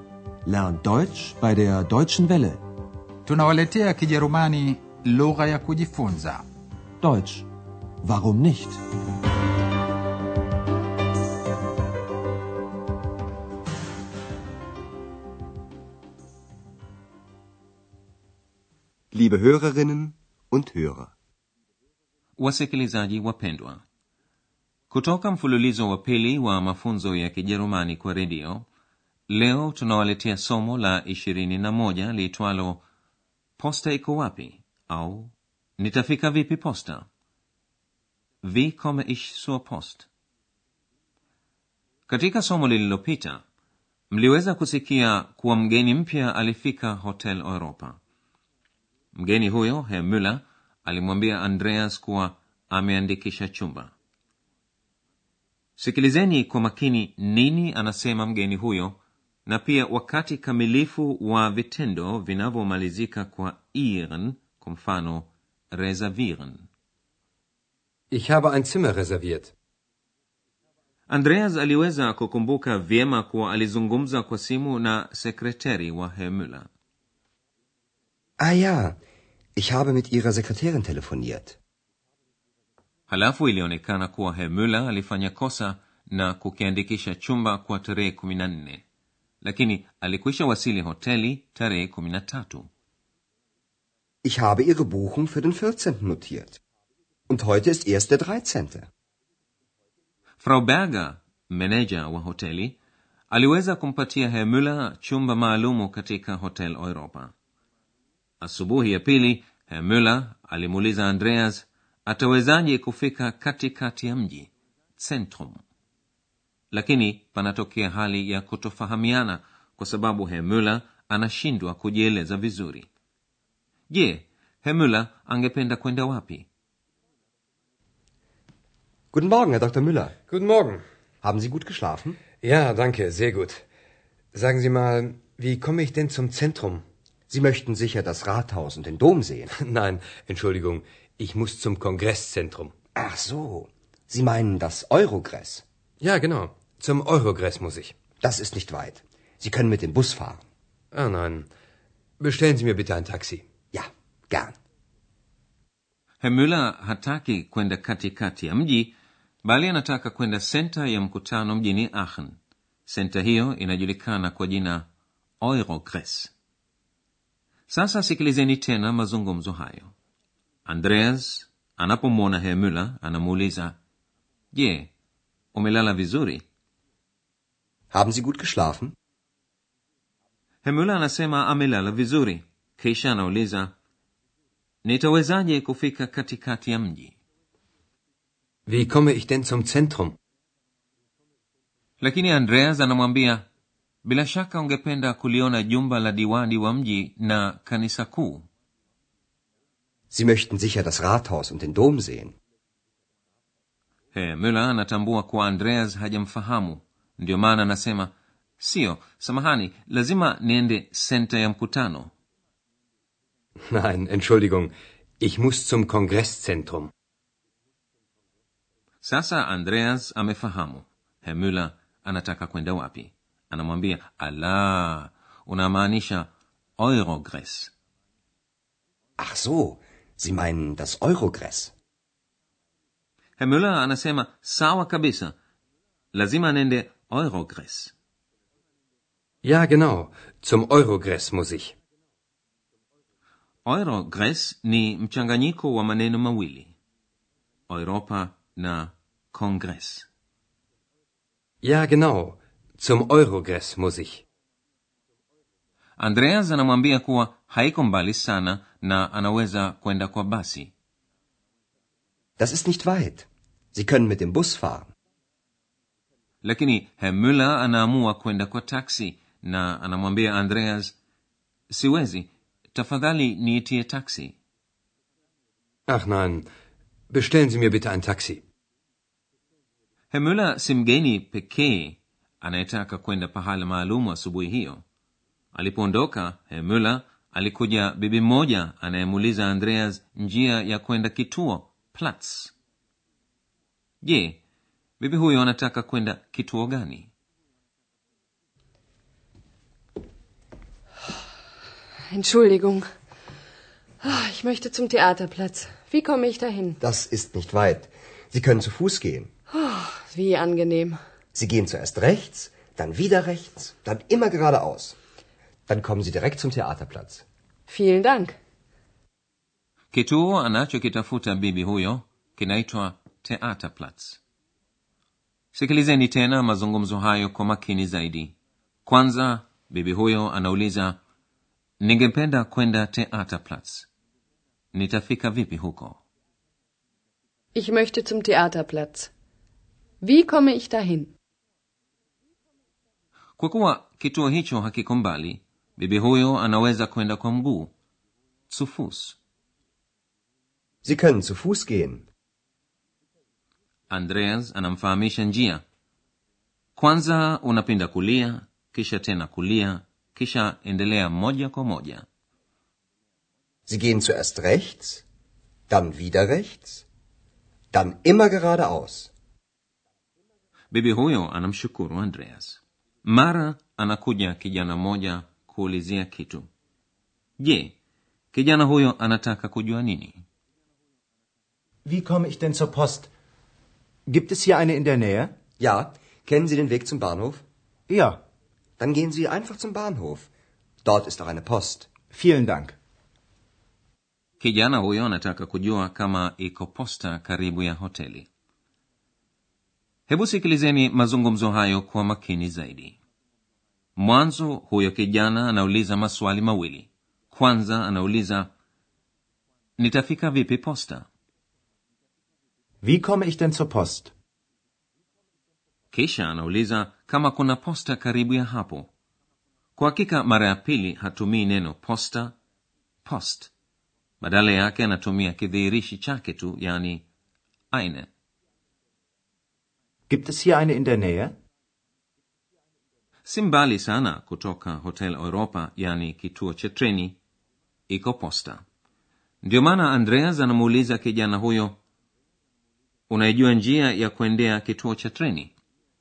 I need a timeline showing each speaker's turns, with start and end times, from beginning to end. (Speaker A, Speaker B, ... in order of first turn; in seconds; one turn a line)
Speaker A: 0.5-2.6
Speaker B: 3.3-6.4
Speaker A: 7.0-7.5
Speaker A: 8.0-8.8
Speaker C: 19.1-21.1
Speaker D: 22.4-23.8
Speaker D: 24.9-28.7
Speaker D: 29.3-32.8
Speaker D: 33.6-37.1
Speaker D: 38.4-40.1
Speaker D: 42.1-43.4
Speaker D: 44.1-48.0
Speaker D: 49.1-53.9
Speaker D: 55.8-66.7
Speaker E: 68.1-69.5
Speaker D: 71.1-76.7
Speaker C: 78.4-79.0
Speaker C: 79.6-81.6
Speaker D: 83.1-88.8
Speaker D: 89.4-92.7
Speaker C: 94.2-96.6
Speaker C: 97.3-98.9
Speaker D: 100.4-102.8
Speaker D: 103.3-107.3
Speaker D: 108.4-115.6
Speaker D: 116.7-122.9
Speaker D: 123.9-126.5
Speaker C: 129.1-130.1
Speaker E: 130.3-130.8
Speaker C: 131.2-132.2
Speaker E: 132.4-133.6
Speaker E: 134.3-136.8
Speaker C: 137.3-139.5
Speaker E: 139.5-142.7
Speaker C: 143.0-145.6
Speaker E: 146.0-148.0
Speaker C: 148.2-150.4
Speaker E: 150.9-151.5
Speaker E: 152.2-153.4
Speaker C: 153.7-154.6
Speaker D: 156.2-162.4
Speaker D: 162.9-164.9
Speaker D: 165.4-166.3
Speaker D: 167.7-169.9
Speaker D: 170.7-173.8
Speaker D: 174.5-174.9
Speaker D: 175.5-176.4
Speaker C: 177.9-178.9
Speaker D: 180.6-183.7
Speaker D: 184.8-187.2
Speaker E: 188.7-190.2
Speaker D: 192.0-193.5
Speaker D: 194.0-198.5
Speaker C: 200.1-202.3
Speaker D: 204.1-212.1
Speaker E: 213.7-216.9
Speaker D: 219.0-227.7
Speaker C: 229.2-231.7
Speaker D: 233.4-235.3
Speaker D: 236.1-237.9
Speaker E: 239.4-241.7
Speaker D: 243.7-246.8
Speaker D: 247.7-250.1
Speaker E: 251.6-254.2
Speaker D: 256.0-260.7
Speaker C: 262.4-264.9
Speaker D: 266.4-270.9
Speaker D: 271.7-274.4
Speaker E: 275.9-276.5
Speaker E: 277.1-278.4
Speaker D: 280.1-284.8
Speaker D: 285.5-292.5
Speaker D: 294.0-294.4
Speaker D: 295.0-297.1
Speaker F: 302.1-302.9
Speaker F: 304.0-306.8
Speaker C: 306.8-309.3
Speaker F: 309.5-311.0
Speaker C: 311.3-315.0
Speaker C: 315.7-317.2
Speaker F: 317.7-318.4
Speaker D: 319.9-324.2
Speaker D: 325.5-331.0
Speaker D: 331.8-333.9
Speaker D: 334.7-336.0
Speaker F: 337.6-339.1
Speaker F: 340.0-341.1
Speaker D: 343.4-347.7
Speaker D: 348.5-349.2
Speaker C: 350.9-352.0
Speaker D: 353.9-355.6
Speaker D: 356.8-362.1
Speaker C: 363.7-365.0
Speaker C: 365.7-366.9
Speaker C: 367.7-369.1
Speaker D: 370.7-376.5
Speaker D: 377.4-377.8
Speaker D: 378.3-380.2
Speaker G: 381.9-383.1
Speaker G: 384.1-385.3
Speaker C: 385.6-387.4
Speaker G: 387.9-388.2
Speaker C: 388.8-390.3
Speaker C: 390.8-392.0
Speaker G: 392.1-392.8
Speaker D: 394.4-398.3
Speaker D: 400.1-403.0
Speaker D: 404.0-408.5
Speaker D: 409.8-411.1
Speaker G: 412.8-414.1
Speaker D: 415.9-418.9
Speaker D: 419.8-422.4
Speaker D: 423.1-423.5
Speaker D: 424.2-427.1
Speaker D: 427.7-428.1
Speaker G: 430.1-431.3
Speaker D: 433.2-437.2
Speaker D: 437.9-438.6
Speaker D: 439.4-441.8
Speaker D: 443.1-445.5